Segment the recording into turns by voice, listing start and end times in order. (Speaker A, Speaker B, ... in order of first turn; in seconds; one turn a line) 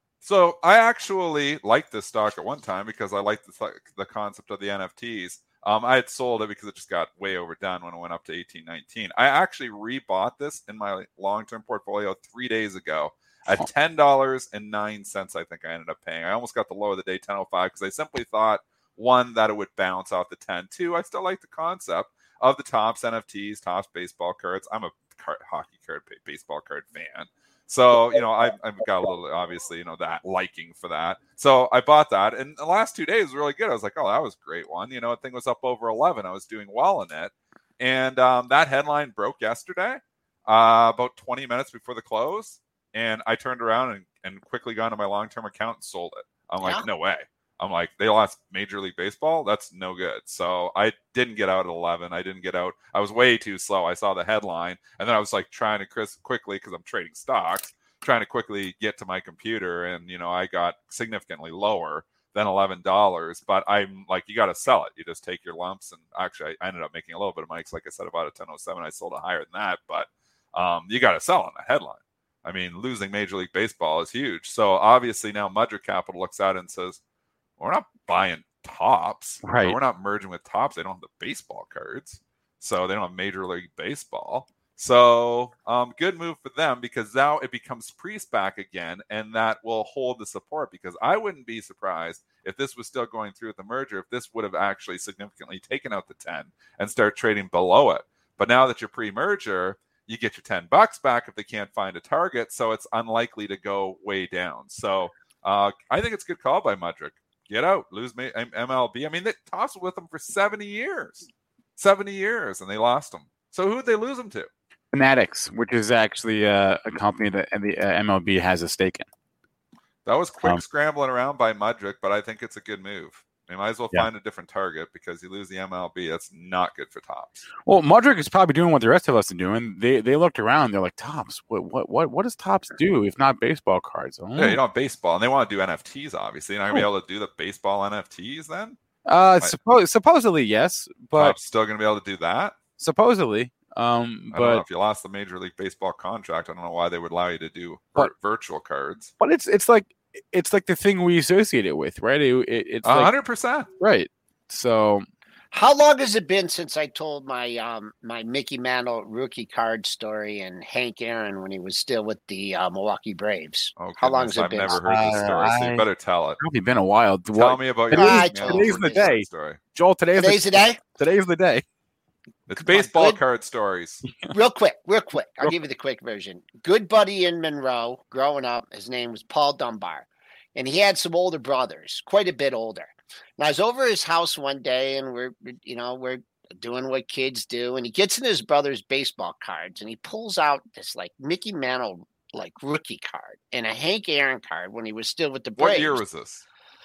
Speaker A: 0.2-77.0
Speaker B: 46.6-46.9
Speaker A: 77.6-114.5
Speaker C: 79.4-79.8
Speaker C: 114.9-119.1
Speaker A: 120.1-127.5
Speaker C: 127.7-134.6
Speaker A: 134.4-138.8
Speaker C: 139.1-141.4
Speaker A: 141.2-142.6
Speaker C: 142.8-144.6
Speaker A: 144.3-149.1
Speaker C: 149.2-153.1
Speaker A: 152.8-153.7
Speaker C: 153.8-155.1
Speaker B: 155.5-164.8
Speaker A: 163.8-166.4
Speaker C: 164.8-165.8
Speaker C: 166.4-171.6
Speaker A: 167.4-169.6
Speaker B: 167.9-169.1
Speaker B: 170.2-170.8
Speaker A: 172.5-174.0
Speaker B: 172.6-173.2
Speaker B: 174.3-196.0
Speaker A: 195.6-196.4